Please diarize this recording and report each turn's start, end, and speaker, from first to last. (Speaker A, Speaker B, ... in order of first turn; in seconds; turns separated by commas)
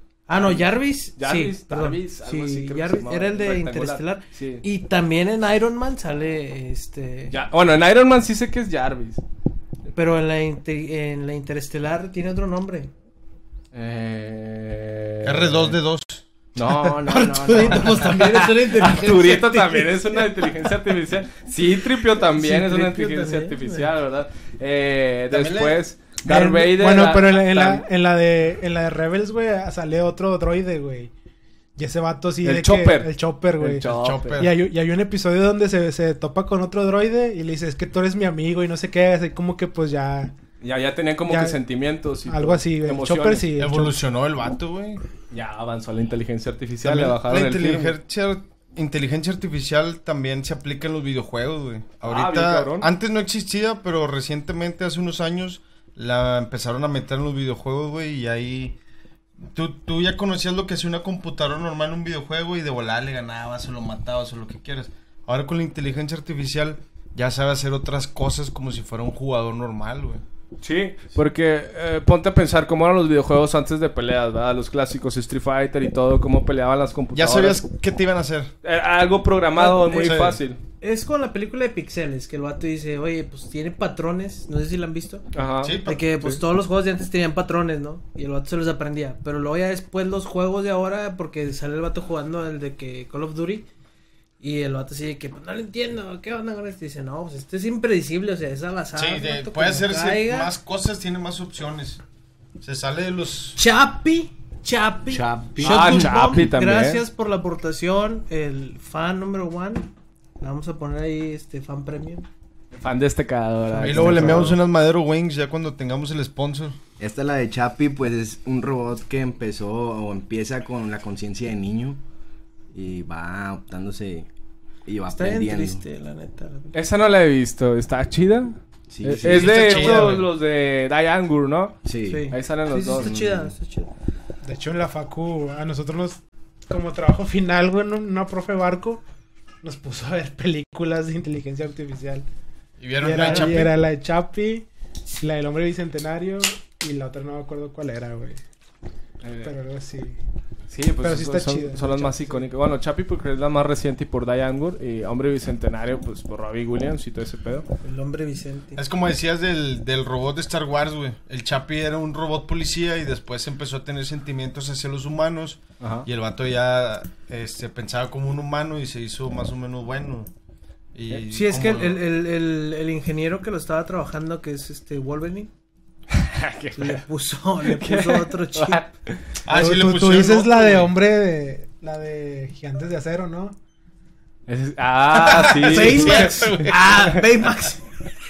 Speaker A: 0.3-7.3, Speaker B: 1.2-4.6, Speaker B: 7.3-9.2, Speaker A: 9.9-12.9, Speaker B: 13.7-15.8, Speaker C: 15.2-16.2, Speaker B: 16.5-27.8, Speaker A: 17.0-20.7, Speaker A: 22.1-23.9, Speaker C: 25.3-25.8, Speaker D: 26.2-31.1, Speaker D: 31.8-40.3, Speaker B: 32.4-34.5, Speaker C: 33.8-34.5, Speaker B: 40.6-43.5, Speaker D: 41.3-41.6, Speaker D: 42.2-44.0, Speaker C: 43.6-45.0, Speaker B: 45.3-47.9, Speaker C: 46.8-58.8, Speaker B: 52.0-52.9, Speaker C: 59.5-70.2, Speaker B: 70.6-77.6, Speaker C: 77.1-78.5, Speaker B: 78.6-80.6, Speaker A: 79.6-80.2, Speaker C: 79.9-80.4, Speaker A: 80.8-85.2, Speaker B: 85.3-86.4, Speaker C: 85.6-86.0, Speaker A: 85.8-93.7, Speaker A: 94.4-100.5, Speaker C: 99.0-102.0, Speaker C: 102.6-103.6, Speaker A: 103.5-112.3, Speaker E: 105.1-106.0, Speaker B: 105.6-107.0, Speaker B: 112.7-114.6, Speaker A: 113.8-114.5, Speaker C: 113.8-116.8, Speaker E: 117.0-122.0, Speaker E: 122.7-124.3, Speaker E: 124.8-125.8, Speaker A: 125.1-126.8, Speaker B: 126.7-133.1, Speaker E: 128.9-130.1, Speaker C: 129.2-130.3, Speaker E: 131.8-132.3, Speaker A: 132.1-133.9, Speaker E: 132.9-133.5, Speaker D: 134.4-139.0, Speaker D: 139.6-142.2, Speaker C: 142.8-143.8, Speaker D: 143.0-148.4, Speaker B: 149.2-149.5, Speaker D: 149.4-150.2, Speaker B: 150.7-157.7, Speaker D: 151.0-152.4, Speaker A: 157.8-158.8, Speaker C: 158.8-170.3, Speaker B: 165.8-166.1, Speaker C: 170.9-172.0, Speaker A: 171.3-175.5, Speaker B: 176.1-177.0, Speaker A: 176.8-178.8, Speaker B: 177.6-179.2, Speaker C: 179.4-180.9, Speaker D: 179.5-183.6, Speaker B: 184.5-187.2, Speaker C: 185.2-187.1, Speaker A: 185.3-187.8